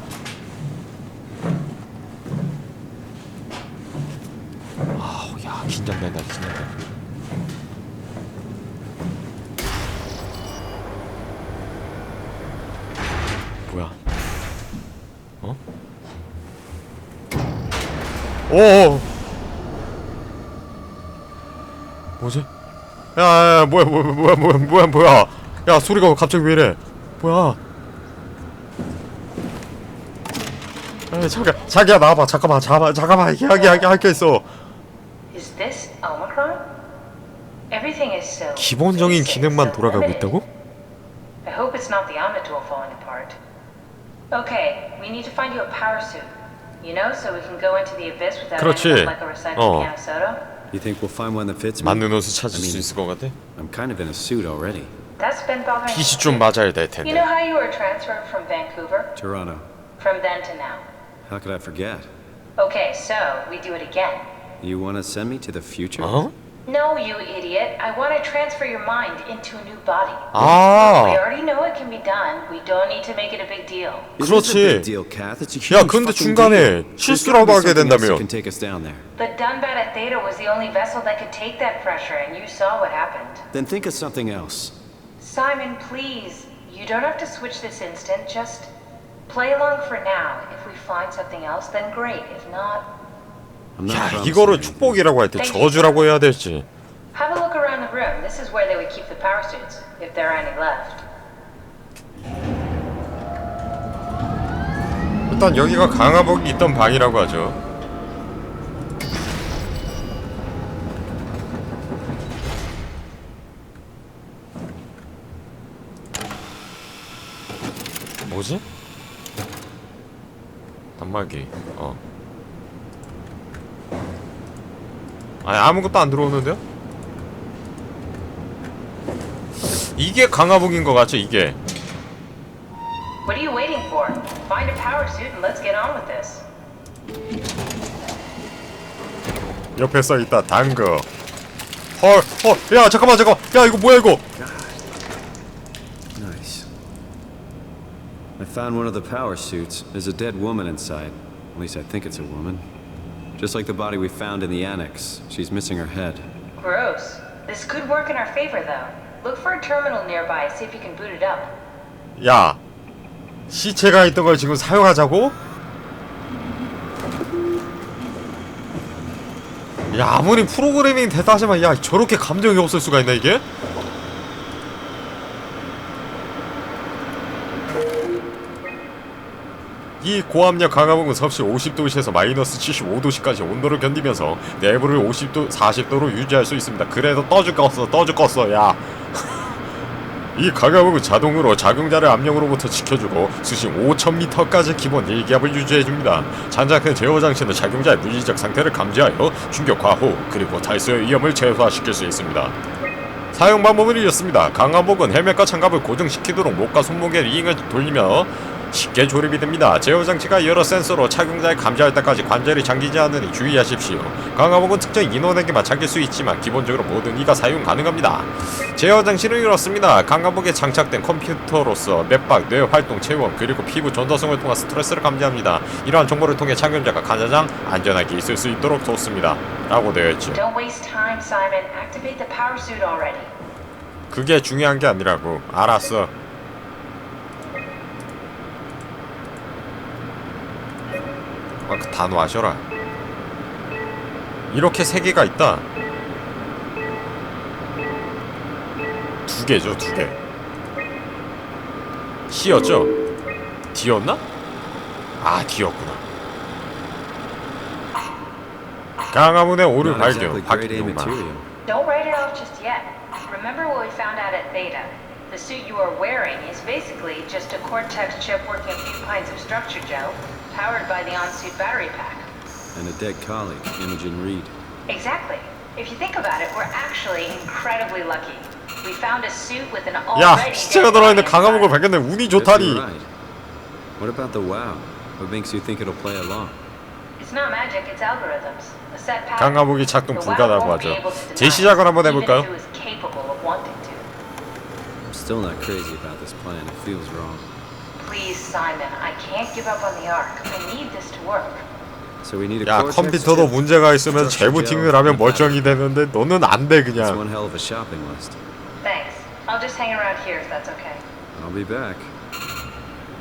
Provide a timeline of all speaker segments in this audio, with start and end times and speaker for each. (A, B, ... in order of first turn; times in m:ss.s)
0:05.0-0:06.7 A
0:13.6-0:14.0 A
0:18.5-0:19.1 A
0:22.2-0:22.5 A
0:23.2-0:27.6 A
0:31.1-0:34.5 A
0:35.3-0:36.7 B
0:37.7-0:40.3 B
0:38.6-0:40.4 A
0:41.4-0:43.4 B
0:44.3-0:50.4 B
0:48.6-0:49.9 A
0:50.7-0:52.9 C
0:51.8-0:53.4 A
0:53.6-0:54.9 C
0:55.2-0:56.5 B
0:55.9-0:57.3 A
0:57.0-0:59.1 B
0:59.2-0:59.7 C
1:00.0-1:00.9 B
1:01.3-1:02.1 C
1:02.6-1:04.3 B
1:04.6-1:06.3 C
1:06.0-1:06.3 A
1:06.7-1:14.1 B
1:10.3-1:11.2 A
1:14.2-1:19.1 C
1:14.2-1:14.9 A
1:15.7-1:18.2 A
1:19.2-1:23.4 B
1:23.5-1:24.8 C
1:25.2-1:28.7 B
1:29.3-1:32.9 B
1:33.8-1:35.1 C
1:33.9-1:36.7 A
1:35.4-1:36.1 B
1:37.1-1:41.0 B
1:45.3-1:47.6 A
1:58.3-1:58.6 A
2:01.0-2:02.0 A
2:05.4-2:06.6 A
2:09.6-2:11.6 A
2:13.2-2:16.5 B
2:19.8-2:21.1 A
2:22.0-2:24.2 A
2:24.4-2:24.8 C
2:26.2-2:26.7 C
2:28.4-2:32.6 C
2:33.4-2:36.3 C
2:36.6-2:41.5 B
2:42.2-2:42.6 A
2:43.5-2:45.4 A
2:49.9-2:53.4 A
3:00.0-3:09.6 A
3:10.4-3:22.6 A
3:23.3-3:50.4 A
3:50.3-3:53.3 B
3:54.1-3:56.1 A
4:01.6-4:02.6 A
4:04.5-4:05.6 A
4:09.3-4:10.2 A
4:12.3-4:12.9 A
4:13.7-4:14.2 A
4:15.2-4:16.0 A
4:19.1-4:21.2 A
4:19.8-4:21.5 C
4:21.7-4:32.3 B
4:32.7-4:34.5 C
4:34.9-4:41.8 B
4:40.2-4:42.8 A
4:42.3-4:43.1 C
4:44.0-4:46.6 C
4:47.2-4:54.1 B
4:49.4-4:52.5 A
4:55.0-4:57.5 C
4:58.0-5:01.6 B
5:02.2-5:05.8 C
5:02.6-5:07.2 A
5:07.0-5:08.4 C
5:08.8-5:11.0 B
5:11.3-5:12.1 C